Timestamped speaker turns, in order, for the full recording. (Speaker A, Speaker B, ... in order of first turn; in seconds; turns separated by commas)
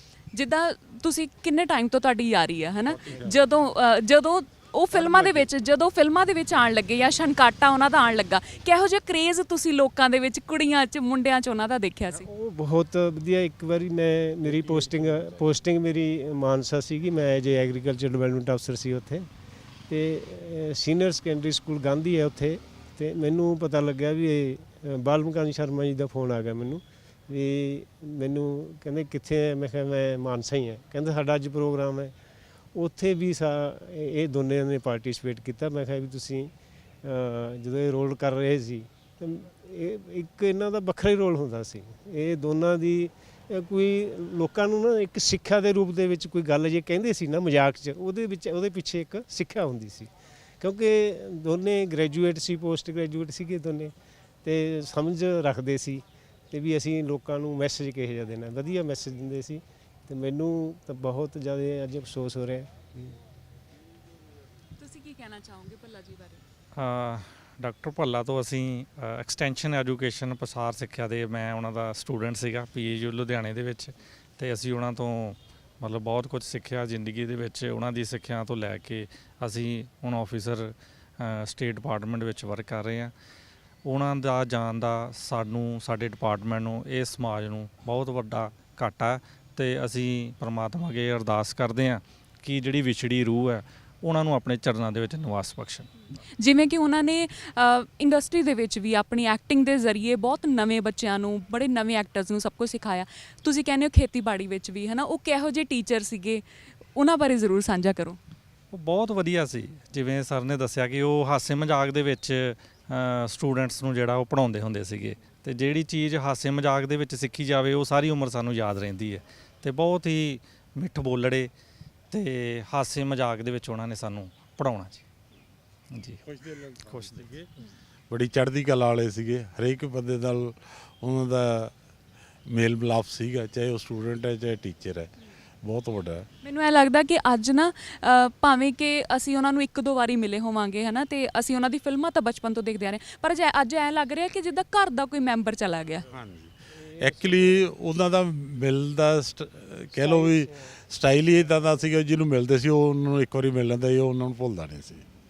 Speaker A: 0.3-12.2, Speaker B: 3.0-3.3, Speaker B: 4.9-5.5, Speaker B: 12.1-19.2, Speaker B: 19.9-32.1, Speaker B: 32.7-36.5, Speaker B: 37.0-53.9, Speaker B: 54.4-63.1, Speaker A: 64.8-66.4, Speaker C: 66.7-83.1, Speaker C: 83.8-96.2, Speaker A: 96.3-108.2, Speaker C: 108.7-121.5, Speaker C: 122.1-125.0, Speaker C: 125.9-126.2, Speaker D: 126.2-127.5, Speaker C: 126.8-127.2, Speaker D: 128.1-131.7, Speaker D: 132.5-135.1, Speaker D: 135.6-136.3, Speaker A: 136.4-146.1, Speaker D: 146.1-155.0